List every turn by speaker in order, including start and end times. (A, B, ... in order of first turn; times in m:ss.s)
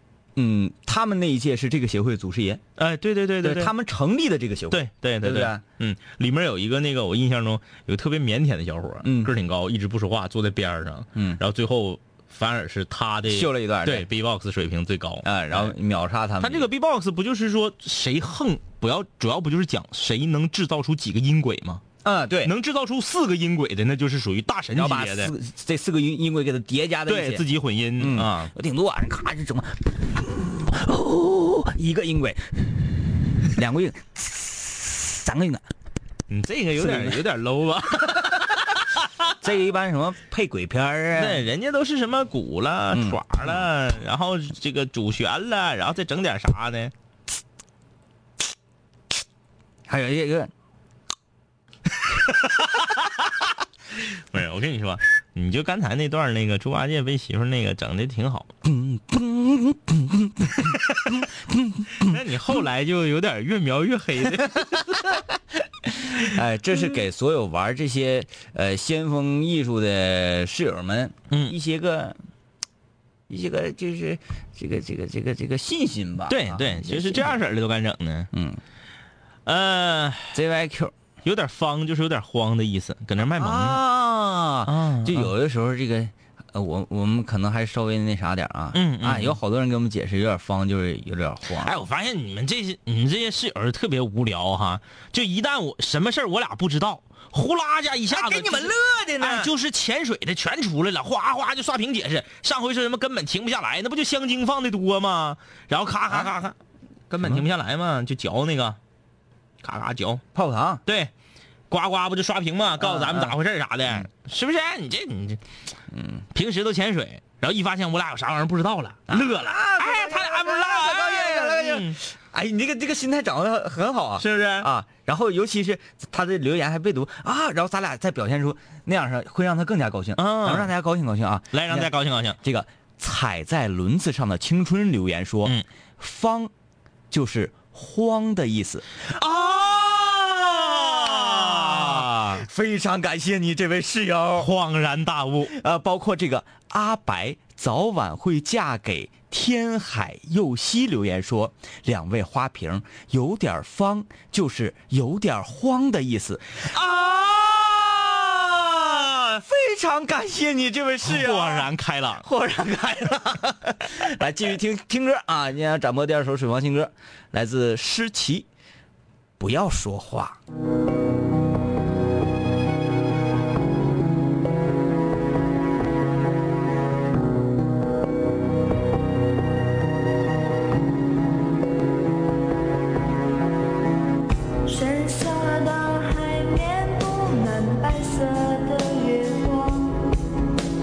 0:00.4-0:02.6 A
0:02.8-0:03.7 B
0:03.4-0:05.6 A
0:04.7-0:15.7 B
0:09.0-0:09.3 A
0:11.1-0:11.4 A
0:13.3-0:14.1 A
0:15.2-0:16.7 A
0:16.4-0:21.8 B
0:22.0-0:22.5 A
0:22.4-0:25.3 B
0:24.7-0:27.4 A
0:27.1-0:28.5 B
0:28.0-0:32.6 A
0:33.5-0:35.6 A
0:36.3-0:39.3 B
0:36.8-0:37.2 A
0:39.4-0:41.4 A
0:41.1-0:46.9 B
0:42.9-0:43.2 A
0:49.9-0:50.5 A
0:52.6-0:53.3 B
0:53.9-0:58.5 B
0:58.6-1:02.2 A
1:00.7-1:01.1 B
1:02.0-1:05.1 B
1:05.9-1:12.2 A
1:11.3-1:11.6 B
1:13.3-1:17.3 A
1:16.3-1:18.3 B
1:18.3-1:18.6 A
1:19.4-1:20.4 B
1:20.3-1:20.9 A
1:21.2-1:23.8 B
1:23.2-1:31.7 A
1:24.6-1:25.3 B
1:28.7-1:29.4 B
1:31.5-1:46.6 B
1:38.1-1:39.5 A
1:47.1-1:48.8 B
1:49.6-1:50.2 B
1:50.3-1:50.8 A
1:50.8-1:51.1 B
1:51.7-1:55.4 B
1:52.8-1:53.4 A
1:55.9-1:56.2 A
1:56.3-2:02.0 B
1:59.1-2:16.5 A
2:04.2-2:04.7 B
2:10.2-2:10.7 B
2:11.5-2:12.4 B
2:17.1-2:18.9 A
2:19.1-2:22.4 B
2:20.8-2:24.5 A
2:24.4-2:25.5 B
2:25.5-2:36.8 A
2:36.6-2:39.4 B
2:39.4-2:48.5 A
2:41.0-2:42.2 B
2:49.4-2:50.4 A
3:04.6-3:10.2 C